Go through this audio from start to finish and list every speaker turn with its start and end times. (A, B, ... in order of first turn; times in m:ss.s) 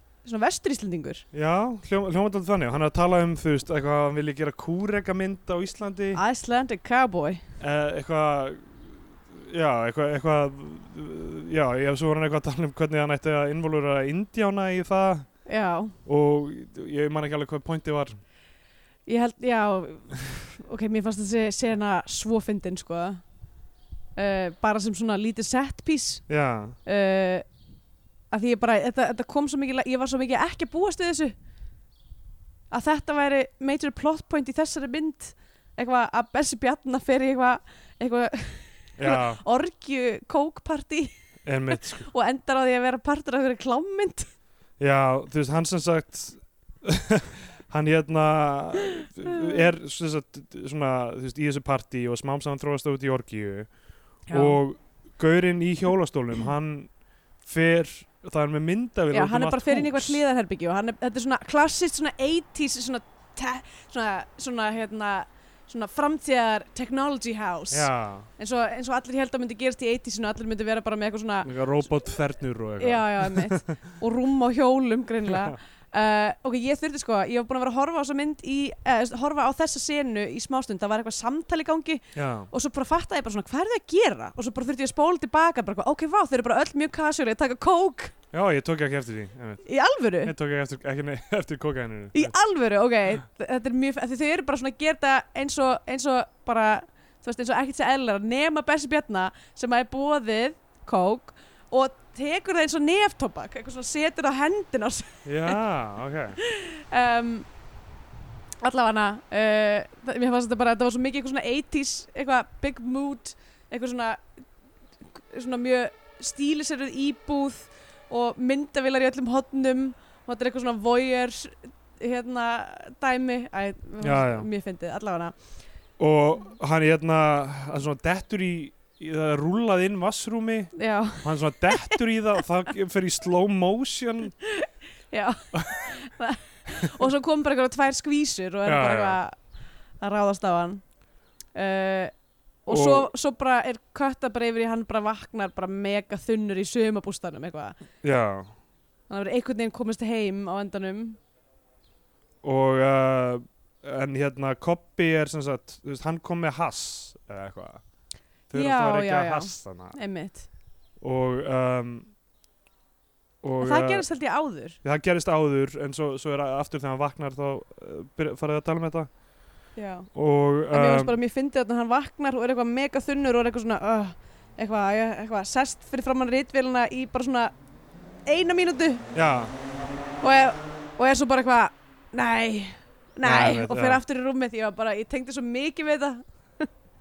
0:00.2-0:01.2 A
0:01.3-0:06.2 B
0:06.1-0:07.4 A
0:07.6-0:15.3 B
0:15.5-0:16.0 A
0:16.1-0:18.2 B
0:19.1-0:23.2 A
0:24.2-0:26.3 A
0:26.3-0:26.8 B
0:26.8-0:27.5 A
0:28.3-0:31.4 A
0:32.7-0:41.1 A
0:39.0-0:39.4 B
0:41.4-0:42.1 B
0:41.7-0:44.3 A
0:44.8-0:53.7 B
0:49.0-0:49.6 A
0:54.3-0:54.6 A
0:54.3-0:56.9 B
0:57.4-1:00.2 B
0:59.1-1:11.6 A
1:07.7-1:08.3 B
1:11.4-1:13.8 B
1:12.8-1:28.1 A
1:15.3-1:15.6 B
1:22.2-1:22.5 B
1:28.3-1:29.6 B
1:29.6-1:30.3 A
1:30.2-1:32.4 B
1:32.1-1:45.6 A
1:45.3-1:46.4 B
1:46.4-1:47.5 A
1:48.6-1:54.3 A
1:55.2-2:05.4 A
2:04.0-2:04.5 B
2:06.0-2:14.4 B
2:10.8-2:12.0 A
2:14.6-2:19.4 A
2:15.5-2:15.8 B
2:18.6-2:19.2 B
2:20.0-2:20.8 A
2:21.6-2:22.1 A
2:22.6-2:27.8 A
2:22.7-2:23.1 B
2:28.0-2:28.5 B
2:29.1-2:31.2 A
2:32.4-2:37.8 B
2:38.5-2:40.0 B
2:38.5-2:40.5 A
2:41.0-2:42.1 B
2:43.4-2:44.1 B
2:43.6-2:44.8 A
2:44.8-2:49.1 B
2:49.8-2:50.1 A
2:50.1-2:51.2 B
2:50.7-2:57.5 A
2:58.3-2:59.0 A
2:59.1-2:59.5 B
3:00.2-3:06.7 A
3:03.2-3:04.0 B